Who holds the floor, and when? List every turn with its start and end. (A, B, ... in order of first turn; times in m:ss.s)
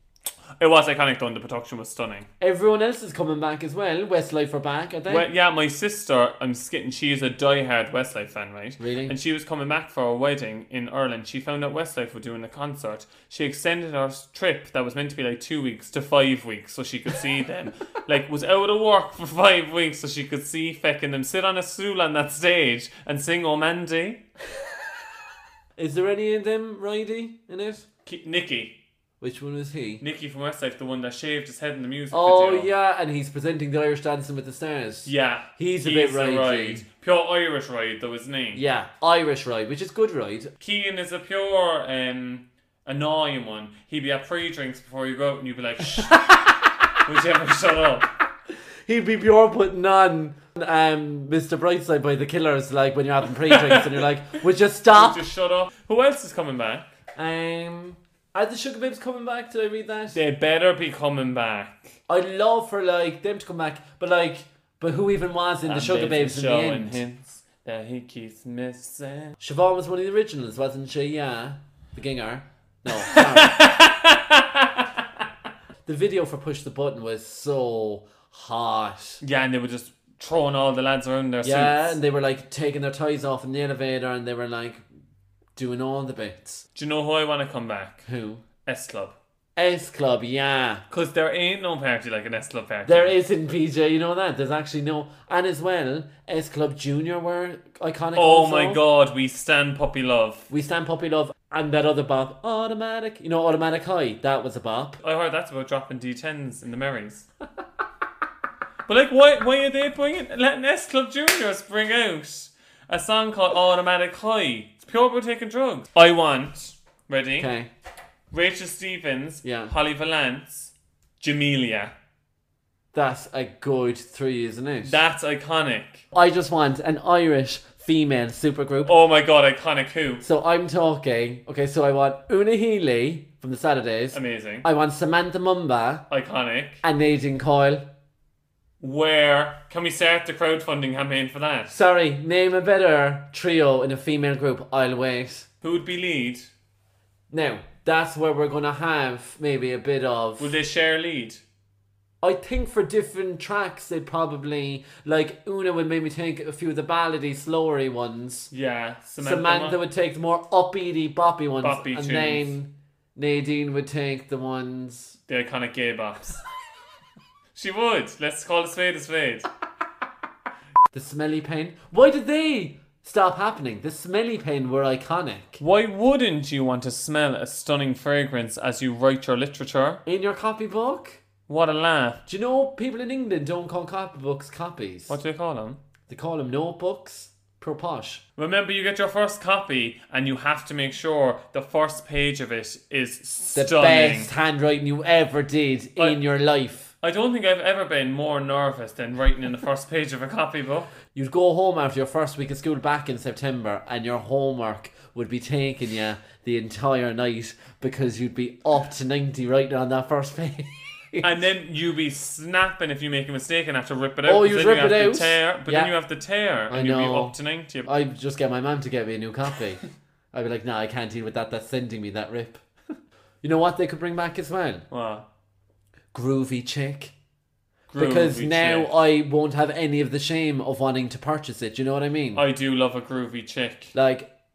0:00.6-0:02.3 A
0:02.4-0:05.3 B
0:05.1-0:24.2 A
0:08.8-0:09.1 B
0:25.8-0:27.9 B
0:28.0-0:28.7 A
0:29.2-0:30.0 B
0:30.0-0:32.7 A
0:32.1-0:36.8 B
0:35.0-0:38.6 A
0:38.5-0:40.5 B
0:40.6-0:48.1 A
0:48.8-0:55.2 B
0:53.5-0:54.0 A
0:54.9-0:56.9 A
0:57.2-1:00.2 B
1:00.1-1:02.0 A
1:02.1-1:07.0 B
1:05.6-1:09.4 A
1:09.4-1:13.6 B
1:13.1-1:14.7 A
1:15.8-1:19.2 B
1:19.2-1:22.0 A
1:21.4-1:24.8 B
1:25.6-1:26.6 B
1:26.7-1:28.1 A
1:28.0-1:28.4 B
1:28.6-1:29.2 A
1:29.6-1:30.8 B
1:30.9-1:33.1 A
1:32.8-1:38.8 B
1:38.2-1:40.5 A
1:40.5-1:45.0 B
1:45.0-1:47.3 A
1:48.9-1:57.5 A
1:57.4-1:57.7 B
1:58.3-2:01.9 A
1:59.4-1:59.7 B
2:02.9-2:05.0 B
2:04.8-2:06.0 A
2:06.1-2:08.9 B
2:08.8-2:10.2 A
2:10.2-2:16.0 B
2:14.1-2:14.6 A
2:16.1-2:16.8 A
2:16.8-2:17.8 B
2:18.8-2:21.8 A
2:21.7-2:25.5 B
2:25.6-2:26.5 A
2:27.3-2:30.5 B
2:30.4-2:31.4 A
2:32.2-2:38.5 B
2:38.5-2:39.8 A
2:39.2-2:45.2 B
2:41.6-2:42.5 A
2:45.3-2:46.4 A
2:47.5-2:49.5 A
2:50.9-2:55.6 B
2:55.6-3:00.0 A
3:00.0-3:01.2 B
3:01.5-3:02.2 A
3:02.2-3:05.2 B
3:05.1-3:05.8 A
3:06.1-3:08.2 B
3:08.4-3:14.3 A
3:13.5-3:16.9 B
3:17.0-3:20.9 A
3:21.1-3:31.3 B
3:31.2-3:37.9 A
3:34.2-3:35.9 B
3:36.7-3:39.8 B
3:40.3-3:42.6 B
3:43.4-3:44.8 B
3:44.9-3:45.2 A
3:46.1-3:47.1 B
3:47.9-3:48.9 A
3:48.0-3:52.4 B
3:52.3-3:53.9 A
3:53.9-3:54.3 B